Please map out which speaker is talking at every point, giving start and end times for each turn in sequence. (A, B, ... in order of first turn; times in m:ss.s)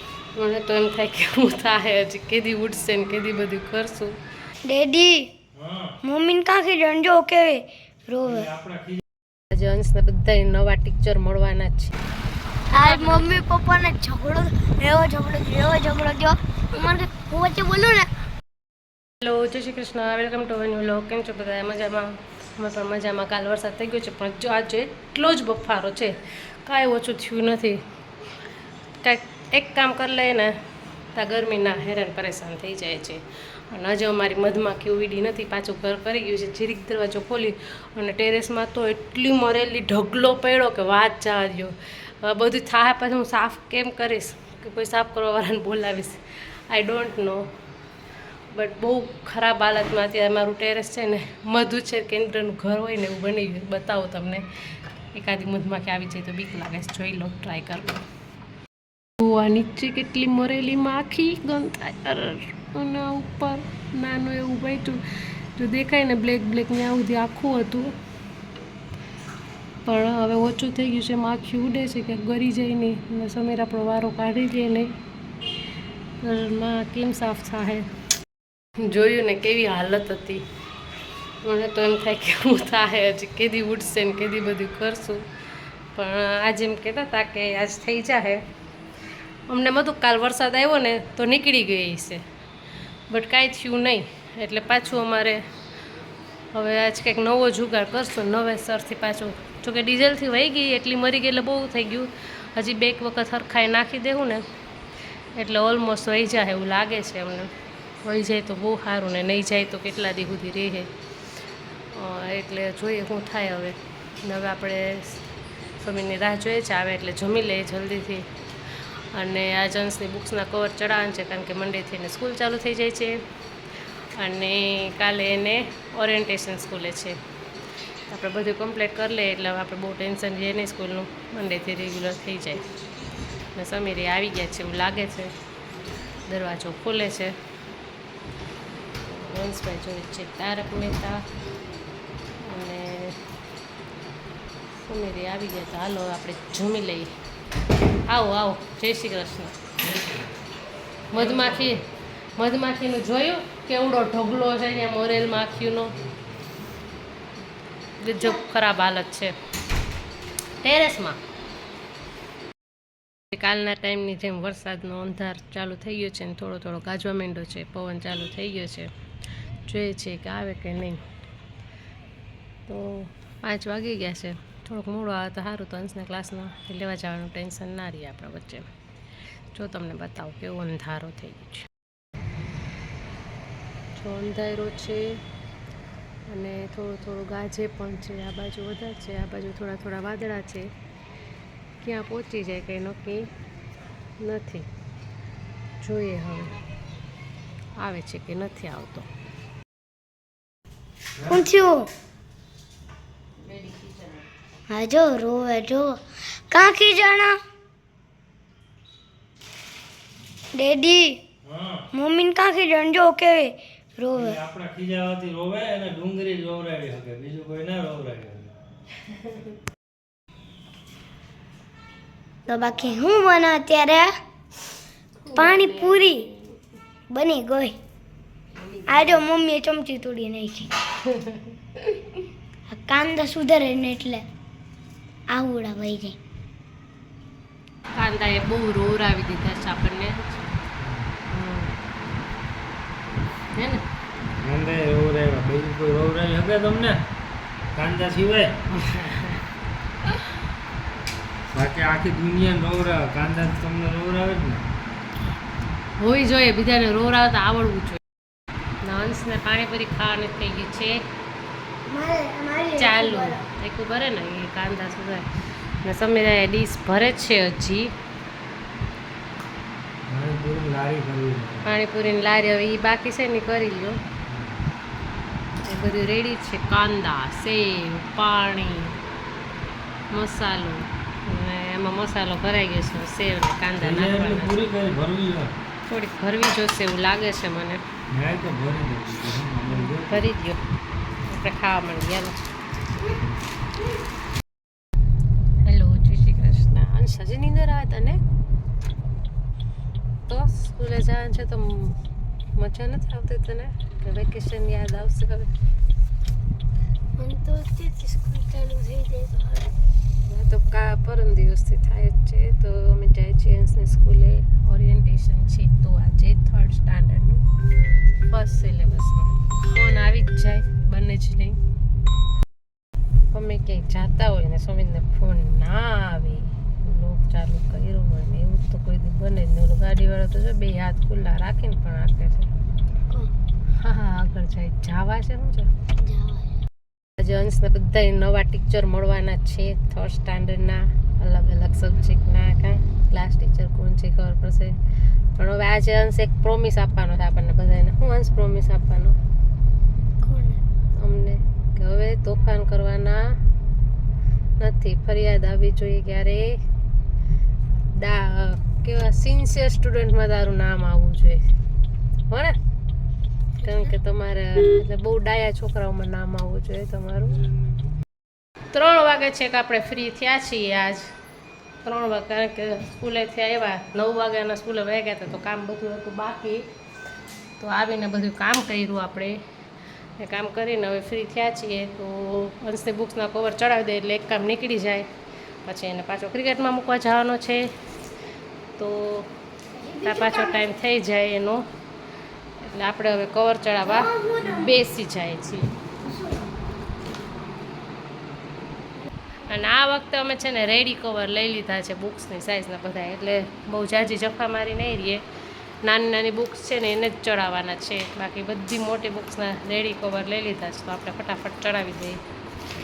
0:00.4-0:04.2 A
0:04.7-0:05.3 B
0:05.6-0:05.9 C
0:06.0-0:08.5 B
0:08.2-0:09.0 C
0:09.5-0:11.9 A
0:12.7-0:18.1 B
0:12.7-0:13.4 A
0:19.2-0:27.8 A
0:29.0-0:30.5 A
0:31.1-0:47.5 A
0:48.5-0:54.4 A
0:55.1-0:58.0 A
0:59.2-1:05.0 A
1:05.6-1:08.0 A
1:09.9-1:15.0 A
1:16.2-1:17.9 A
1:18.8-1:20.4 A
1:21.4-1:25.3 A
1:26.0-1:28.4 A
1:29.5-1:32.2 A
1:33.1-1:35.4 A
1:36.5-1:44.5 A
1:45.4-1:47.5 A
1:48.0-1:50.9 A
1:51.9-1:55.2 A
1:55.8-1:58.3 A
1:59.1-2:03.2 A
2:04.2-2:07.2 A
2:08.1-2:12.6 A
2:13.5-2:15.3 A
2:16.3-2:17.3 A
2:19.0-2:21.2 A
2:22.4-2:23.2 A
2:24.8-2:27.1 A
2:28.1-2:29.6 A
2:29.8-2:30.2 C
2:31.1-2:31.8 A
2:31.1-2:31.8 C
2:32.4-2:35.9 A
2:35.0-2:36.2 C
2:38.0-2:39.3 A
2:38.2-2:38.4 B
2:40.6-2:41.2 A
2:43.3-2:48.9 A
2:49.7-2:51.0 A
2:52.7-2:58.7 A
2:59.5-3:01.7 A
3:04.0-3:05.2 A
3:06.3-3:10.7 A
3:11.8-3:13.3 A
3:14.2-3:14.7 A
3:15.8-3:16.5 A
3:17.8-3:19.1 A
3:21.2-3:21.4 C
3:21.3-3:21.9 B
3:23.4-3:24.2 A
3:24.7-3:25.9 B
3:26.5-3:27.4 B
3:30.5-3:31.2 B
3:31.4-3:31.8 C
3:31.9-3:34.4 B
3:34.1-3:38.5 C
3:39.1-3:39.4 A
3:42.5-3:44.1 B
3:45.2-3:46.6 A
3:45.4-3:46.2 B
3:47.1-3:47.8 B
3:48.6-3:49.2 A
3:48.9-3:50.7 B
3:51.1-3:51.5 A
3:52.7-3:54.2 B
3:55.3-3:56.2 B
3:57.9-4:00.6 A
4:00.8-4:01.1 C
4:01.3-4:01.7 A
4:03.5-4:03.8 A
4:04.4-4:07.0 C
4:07.8-4:08.6 C
4:08.8-4:09.4 A
4:11.5-4:14.6 C
4:16.0-4:18.0 A
4:18.8-4:21.0 A
4:21.9-4:23.4 B
4:22.8-4:25.2 A
4:25.8-4:27.9 A
4:30.1-4:31.8 C
4:31.6-4:34.0 A
4:34.3-4:34.6 C
4:35.6-4:39.0 A
4:40.1-4:44.6 A
4:43.8-4:45.5 C
4:45.9-4:47.8 A
4:48.1-4:50.2 C
4:49.7-4:50.6 A
4:51.3-4:52.4 A
4:55.6-4:58.2 A
5:00.3-5:02.0 A
5:02.6-5:05.5 A
5:07.2-5:09.7 B
5:10.3-5:17.4 A
5:18.3-5:21.6 A
5:23.3-5:32.5 A
5:33.8-5:35.7 A
5:36.0-5:36.6 B
5:37.2-5:44.8 A
5:45.4-5:49.2 A
5:50.2-5:50.6 B
5:51.0-5:53.2 A
5:54.6-5:56.6 A
5:57.9-6:01.4 A
6:02.3-6:02.6 A
6:03.6-6:03.9 B
6:03.6-6:07.4 A
6:08.7-6:11.1 A
6:11.8-6:16.6 A
6:17.6-6:19.4 A
6:20.2-6:25.1 A
6:25.6-6:27.7 A
6:28.8-6:29.3 A
6:29.7-6:30.7 B
6:30.0-6:31.7 A
6:32.6-6:35.7 A
6:33.8-6:34.8 B
6:36.0-6:36.5 B
6:39.5-6:45.2 A
6:45.8-6:52.2 A